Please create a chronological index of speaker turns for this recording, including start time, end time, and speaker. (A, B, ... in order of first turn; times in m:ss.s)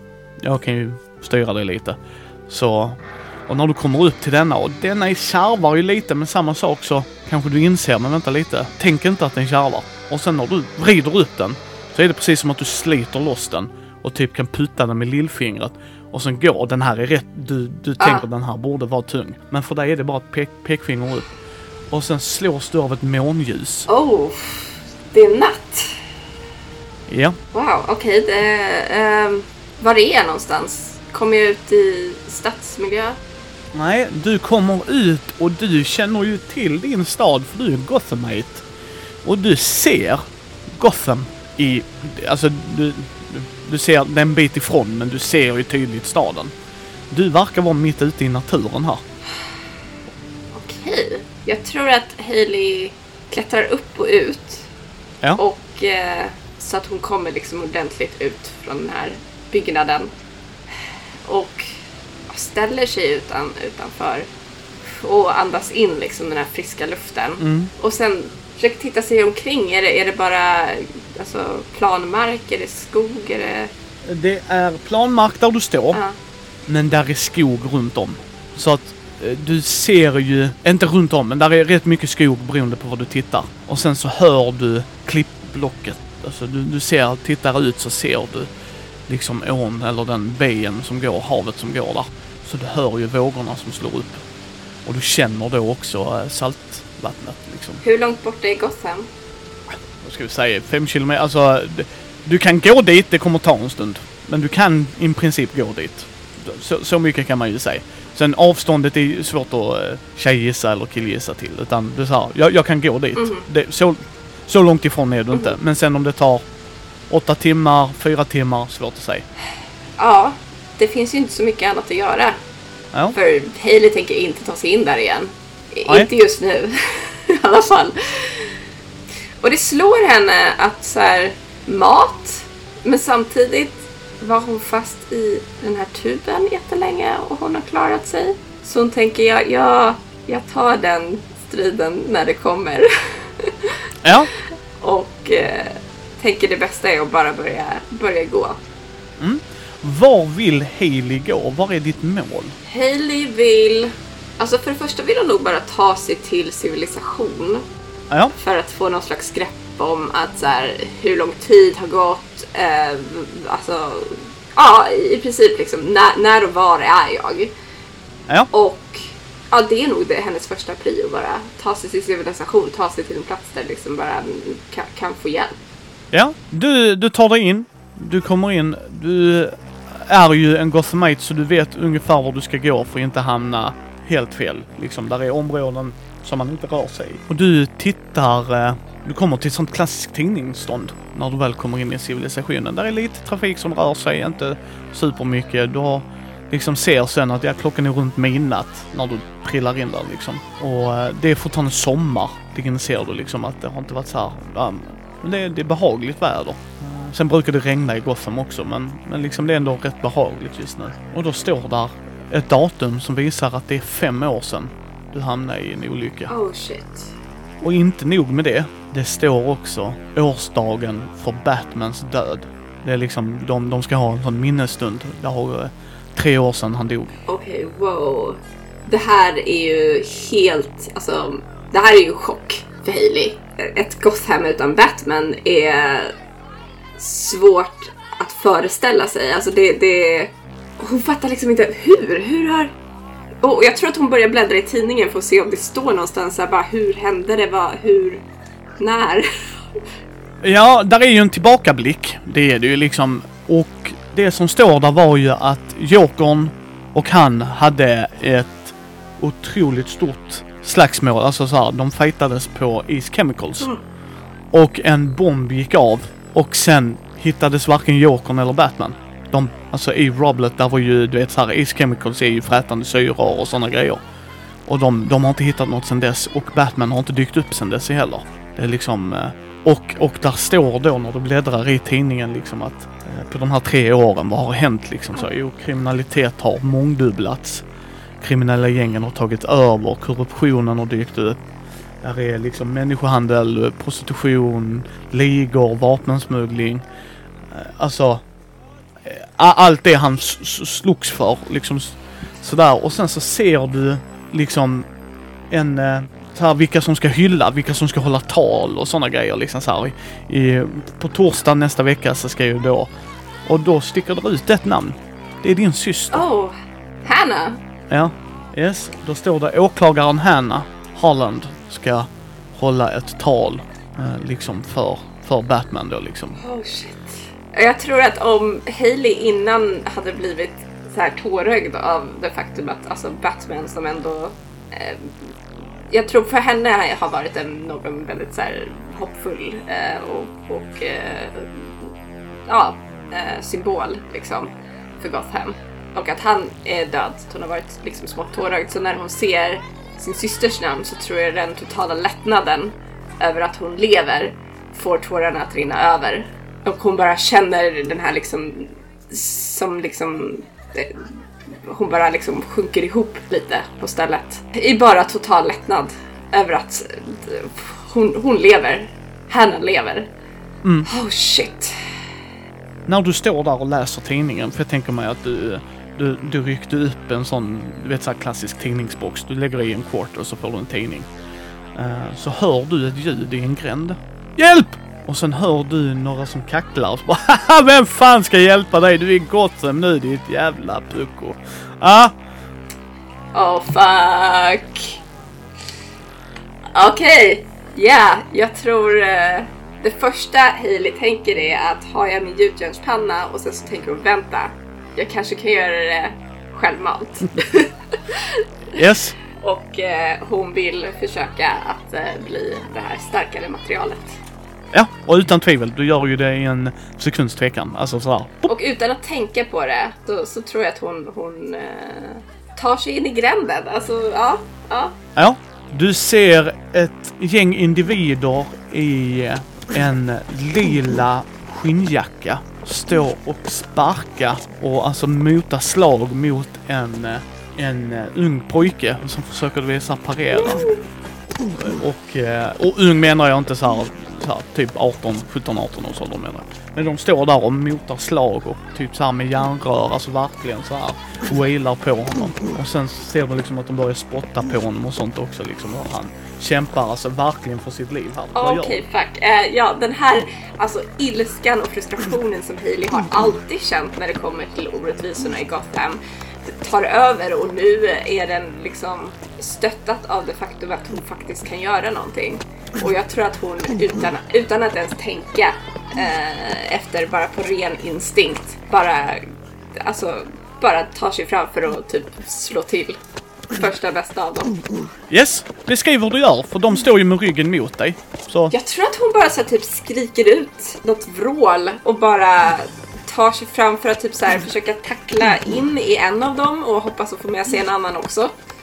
0:00.4-0:02.0 A
0:02.5-0:21.3 A
0:18.0-0:18.2 B
0:21.9-0:23.9 A
0:23.9-0:26.0 B
0:27.1-0:27.4 A
0:27.5-0:33.2 B
0:33.7-0:38.6 A
0:39.2-0:46.5 A
0:47.1-0:49.0 A
0:50.5-0:54.7 B
0:55.4-1:00.1 B
1:01.2-1:01.7 B
1:02.3-1:04.3 B
1:04.8-1:13.7 B
1:07.4-1:07.7 A
1:14.1-1:16.0 A
1:16.7-1:28.5 A
1:29.1-1:34.2 A
1:34.8-1:37.8 A
1:37.8-1:39.1 B
1:40.0-1:56.4 A
1:53.2-1:53.4 B
1:57.1-1:59.2 A
2:00.0-2:02.4 B
2:03.1-2:08.5 B
2:09.4-2:23.7 B
2:24.0-2:24.3 A
2:24.8-2:28.6 B
2:29.2-2:32.6 A
2:32.7-2:37.6 B
2:38.4-2:47.5 B
2:48.5-2:55.6 B
2:56.1-3:36.3 A
3:36.3-3:37.1 B
3:37.6-3:47.1 A
3:47.3-3:56.1 B
3:57.0-4:02.7 B
4:03.4-4:08.2 B
4:08.8-4:09.3 B
4:10.4-4:23.7 A
4:24.5-4:34.0 A
4:34.7-4:47.6 A
4:48.2-4:51.4 A
4:52.0-4:56.8 A
4:57.5-4:58.2 A
4:59.0-5:04.9 A
5:05.5-5:12.9 A
5:13.4-5:16.2 A
5:16.1-5:17.6 B
5:17.9-5:26.4 A
5:26.4-5:35.1 B
5:35.9-5:41.9 B
5:42.5-6:01.1 B
6:01.6-6:10.1 B
6:10.9-6:11.8 B
6:12.9-6:21.1 A
6:21.7-6:32.1 A
6:33.3-6:35.0 B
6:36.7-6:48.8 B
6:48.8-6:49.2 A
6:49.4-6:54.2 B
6:54.7-6:58.5 A
6:58.5-7:05.0 B
7:05.2-7:20.7 A
7:21.6-7:38.8 A
7:38.4-7:59.2 B
7:59.7-8:03.0 B
8:03.5-8:04.6 B
8:05.1-8:08.5 A
8:08.5-8:18.3 B